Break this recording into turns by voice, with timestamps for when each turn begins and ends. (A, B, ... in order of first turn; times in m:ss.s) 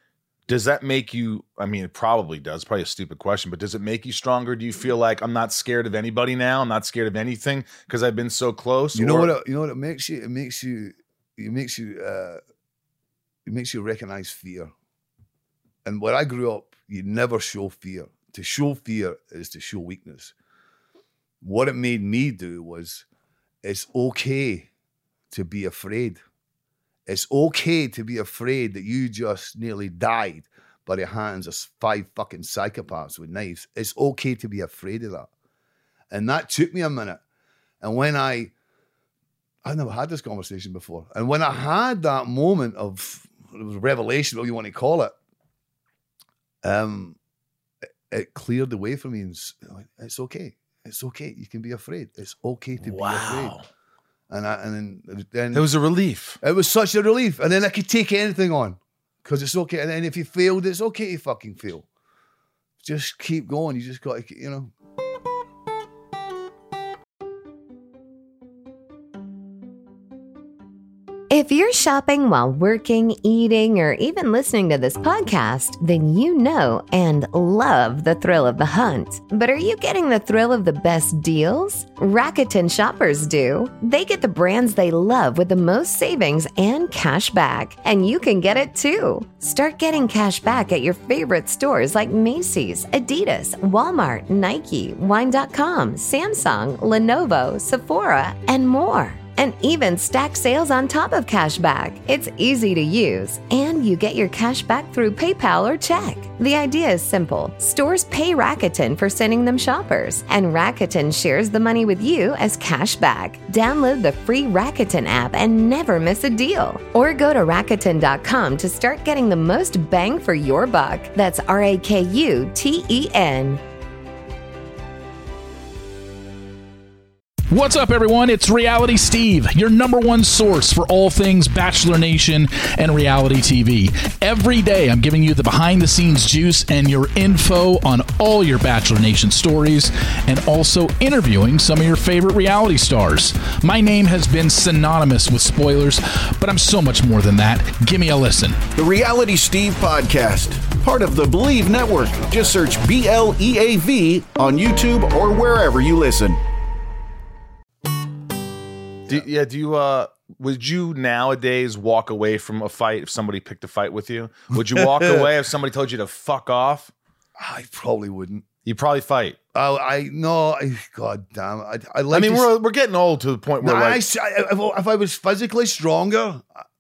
0:00.5-0:09.4 A
0:08.9-0:12.4 B
0:13.5-0:14.7 B
0:15.8-0:20.3 B
0:21.4-0:23.0 B
0:23.6-0:24.7 B
0:25.3-0:26.2 B
0:27.1-0:35.3 B
0:36.1-0:37.2 B
0:37.8-0:38.5 B
0:39.6-0:45.1 B
0:46.6-0:47.2 B
0:48.1-0:53.6 B
0:52.8-0:53.7 A
0:54.3-0:55.7 B
0:55.5-0:56.4 A
0:56.4-1:01.8 B
1:02.8-1:04.7 B
1:11.3-2:03.6 C
2:07.5-2:28.7 D
2:28.8-2:36.4 E
2:39.1-2:46.9 A
2:44.7-2:45.3 B
2:47.4-2:48.5 B
2:48.6-2:49.4 A
2:49.5-2:52.5 B
2:52.1-2:54.0 A
2:53.6-2:56.5 B